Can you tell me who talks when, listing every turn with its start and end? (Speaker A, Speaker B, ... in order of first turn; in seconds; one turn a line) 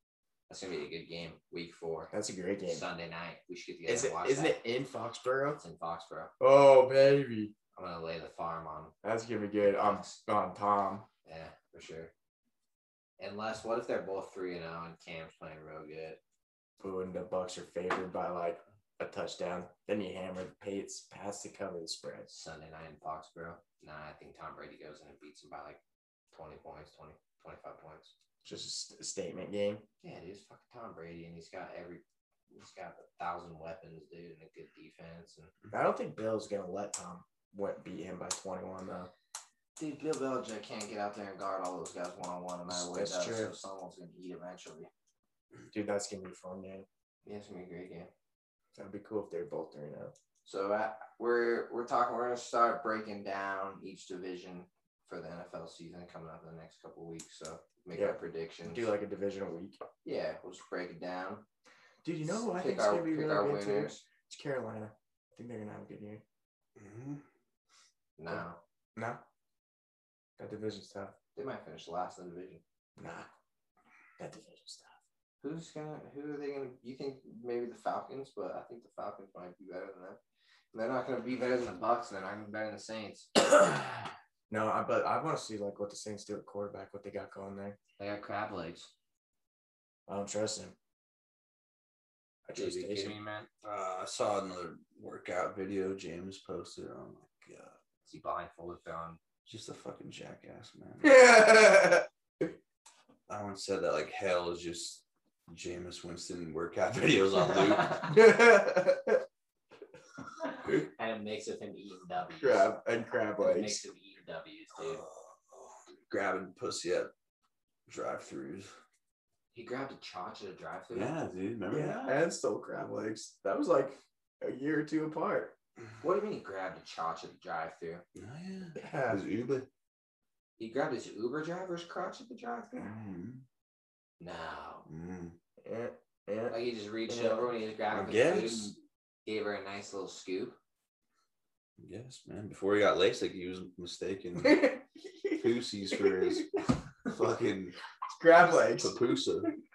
Speaker A: 0.5-2.1
Speaker B: 2.1-2.8
Speaker A: 2.6-4.6
Speaker B: 3.9-5.6
Speaker A: 5.6-6.3
Speaker B: 6.4-7.5
Speaker A: 7.7-8.9
Speaker B: 9.0-11.1
Speaker A: 9.6-10.2
Speaker A: 11.2-12.1
Speaker A: 13.2-16.2
Speaker B: 16.8-22.3
Speaker A: 22.3-25.8
Speaker A: 26.3-28.1
Speaker B: 28.4-29.8
Speaker A: 30.0-35.5
Speaker B: 35.7-39.1
Speaker A: 39.8-44.9
Speaker B: 42.7-43.5
Speaker B: 45.7-46.9
Speaker A: 47.2-48.1
Speaker B: 48.8-50.1
Speaker A: 50.4-58.9
Speaker B: 57.9-59.8
Speaker A: 60.0-61.4
Speaker B: 62.0-66.2
Speaker A: 62.2-64.0
Speaker C: 66.8-67.2
Speaker A: 68.2-68.6
Speaker B: 69.0-69.2
Speaker B: 70.4-71.1
Speaker A: 71.3-72.6
Speaker B: 73.0-73.3
Speaker B: 74.2-75.0
Speaker A: 75.4-80.2
Speaker A: 80.7-83.3
Speaker B: 84.5-87.8
Speaker A: 88.0-88.9
Speaker B: 90.1-90.8
Speaker B: 92.5-93.1
Speaker A: 92.5-93.5
Speaker C: 93.6-97.8
Speaker A: 98.0-99.2
Speaker C: 99.5-101.2
Speaker B: 101.0-102.0
Speaker C: 103.3-108.0
Speaker A: 107.5-108.1
Speaker B: 108.1-109.2
Speaker A: 110.4-112.7
Speaker B: 112.4-113.8
Speaker A: 113.4-115.0
Speaker C: 114.8-117.1
Speaker C: 117.9-118.7
Speaker A: 119.5-121.2
Speaker C: 120.9-122.2
Speaker B: 121.7-125.5
Speaker A: 126.0-128.0
Speaker C: 128.1-129.7
Speaker B: 128.8-129.2
Speaker A: 130.6-132.9
Speaker C: 132.8-133.4
Speaker A: 134.2-134.8
Speaker C: 134.8-135.4
Speaker B: 135.6-137.5
Speaker A: 136.5-140.6
Speaker C: 137.9-138.8
Speaker C: 141.8-144.8
Speaker B: 144.4-146.0
Speaker C: 145.4-146.5
Speaker C: 147.1-147.8
Speaker B: 148.1-148.9
Speaker C: 148.8-149.5